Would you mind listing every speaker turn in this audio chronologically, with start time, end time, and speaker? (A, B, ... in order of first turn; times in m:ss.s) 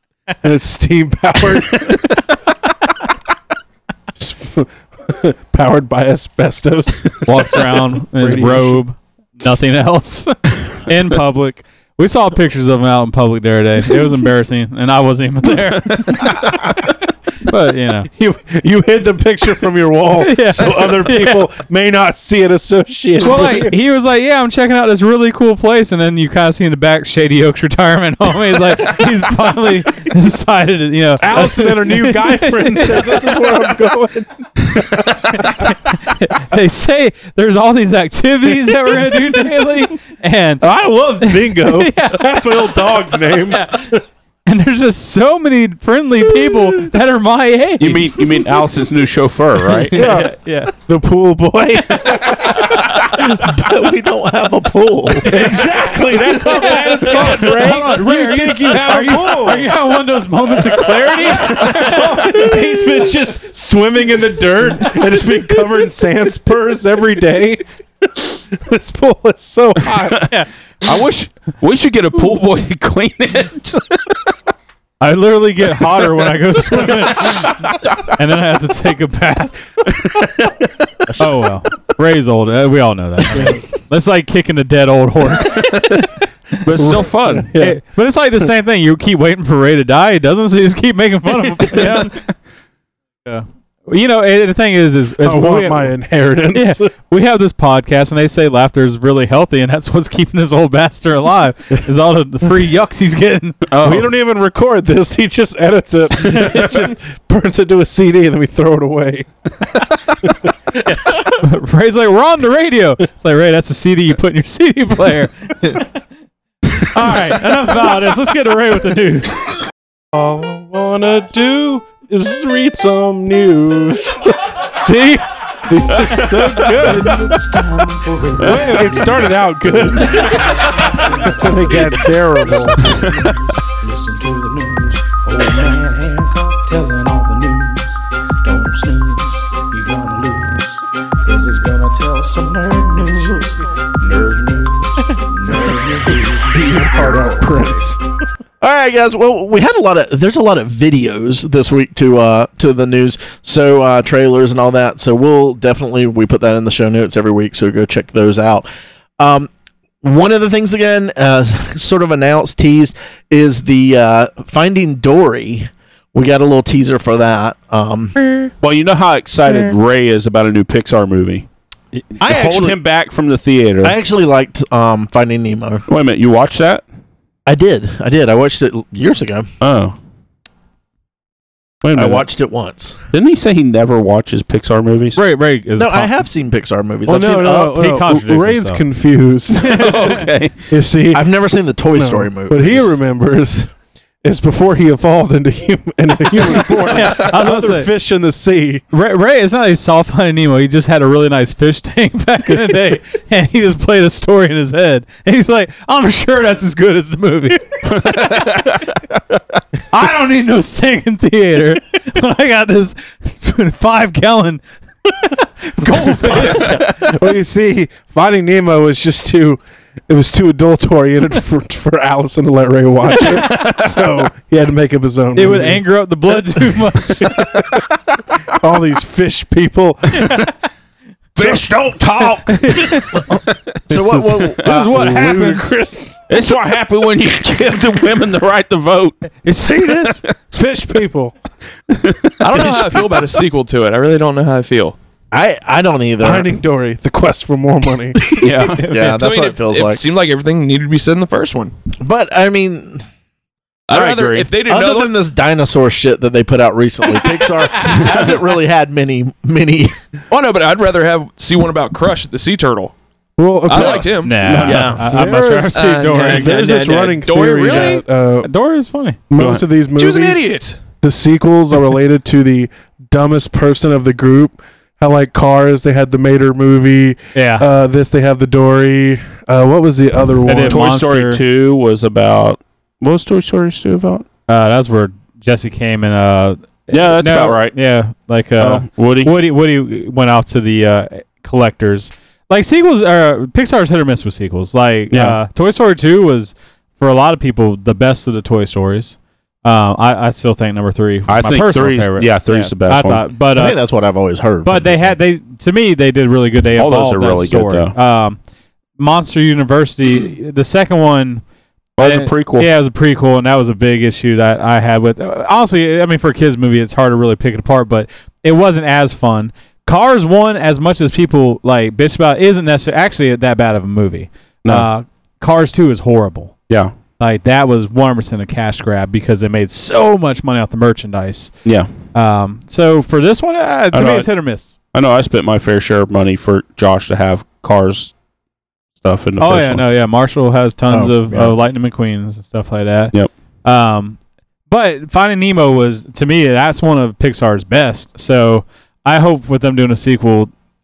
0:00.4-0:02.0 A
0:01.9-0:02.2 B
0:04.2-0:08.8 A
0:07.2-0:16.4 C
0:15.9-0:16.7 B
0:17.5-0:18.1 C
0:18.1-0:23.8 A
0:20.2-0:21.4 C
0:23.2-0:33.5 C
0:31.2-0:35.8 A
0:35.3-0:40.6 C
0:40.6-0:44.0 A
0:41.2-0:42.9 C
0:43.5-0:44.0 C
0:44.5-0:48.5 C
0:47.8-0:50.0 B
0:49.9-0:50.7 C
0:49.9-0:52.8 A
0:53.1-0:55.5 D
0:55.2-0:59.7 A
0:56.2-1:02.7 C
1:01.3-1:10.3 A
1:10.0-1:10.3 B
1:10.8-1:14.2 B
1:15.0-1:19.7 C
1:17.2-1:17.8 B
1:21.2-1:25.7 C
1:25.6-1:26.0 B
1:26.6-1:27.5 B
1:26.8-1:27.8 A
1:27.6-1:32.2 C
1:33.3-1:35.9 C
1:35.2-1:36.9 A
1:36.5-1:43.6 C
1:43.7-1:44.1 B
1:43.8-1:49.3 A
1:50.8-1:55.9 C
1:56.9-1:59.4 C
2:00.1-2:07.3 A
2:06.0-2:06.7 B
2:06.6-2:27.9 E
2:08.4-2:13.0 A
2:08.4-2:08.8 B
2:12.8-2:13.3 B
2:26.5-2:28.0 A
2:28.6-2:38.7 D
2:39.2-2:39.5 D
2:40.0-2:48.5 D
2:48.6-2:51.5 B
2:52.2-2:54.0 B
2:52.2-2:52.8 D
2:53.8-2:55.9 D
2:55.9-2:56.8 B
2:57.5-2:59.5 D
2:59.6-3:00.0 B
3:01.8-3:02.3 B
3:01.9-3:03.0 D
3:03.1-3:05.2 B
3:05.2-3:06.2 C
3:05.8-3:07.8 D
3:07.1-3:11.3 A
3:07.7-3:08.8 C
3:09.5-3:10.3 C
3:09.6-3:10.5 B
3:11.1-3:12.9 D
3:11.9-3:13.7 A
3:14.2-3:18.8 A
3:16.6-3:17.9 C
3:18.9-3:28.7 C
3:27.9-3:29.0 B
3:29.9-3:36.8 C
3:36.1-3:45.8 A
3:36.4-3:37.0 B
3:36.4-3:36.8 D
3:43.2-3:43.6 C
3:45.4-3:47.5 C
3:47.2-3:47.6 A
3:48.5-3:50.4 A
3:50.2-3:50.4 C
3:51.4-3:53.2 B
3:52.5-3:53.2 C
3:53.1-3:55.0 D
3:53.9-3:56.2 A
3:54.6-3:55.8 C
3:56.3-4:00.2 B
3:59.4-4:00.2 C
4:00.5-4:01.4 A
4:01.9-4:03.0 B
4:02.4-4:05.0 F
4:05.3-4:06.5 D
4:06.2-4:08.2 A
4:08.4-4:08.8 B
4:08.4-4:10.0 D
4:08.8-4:09.1 C
4:08.8-4:11.7 F
4:12.0-4:13.0 D
4:13.9-4:15.2 F
4:13.9-4:14.5 B
4:14.6-4:20.0 D
4:20.3-4:22.9 F
4:23.4-4:24.2 A
4:23.7-4:24.5 F
4:23.7-4:25.0 B
4:24.2-4:26.8 C
4:24.6-4:25.1 D
4:25.0-4:28.5 A
4:25.7-4:28.0 F
4:28.4-4:29.2 C
4:29.3-4:40.9 A
4:29.4-4:29.6 B
4:30.0-4:30.8 F
4:37.4-4:37.7 C
4:40.5-4:41.4 C
4:40.7-4:44.3 B
4:44.5-5:03.8 C
4:46.9-4:47.8 B
4:48.6-4:49.3 B
4:55.1-4:55.4 B
5:01.3-5:03.2 B
5:03.6-5:05.2 D
5:04.6-5:08.4 C
5:06.8-5:07.9 B
5:09.0-5:11.4 C
5:12.0-5:12.7 B
5:12.0-5:26.5 C
5:27.2-5:31.5 C
5:32.1-5:34.7 C
5:33.9-5:34.3 B
5:34.9-5:38.1 B
5:39.0-5:39.9 B
5:39.4-5:50.5 C
5:40.9-5:41.6 D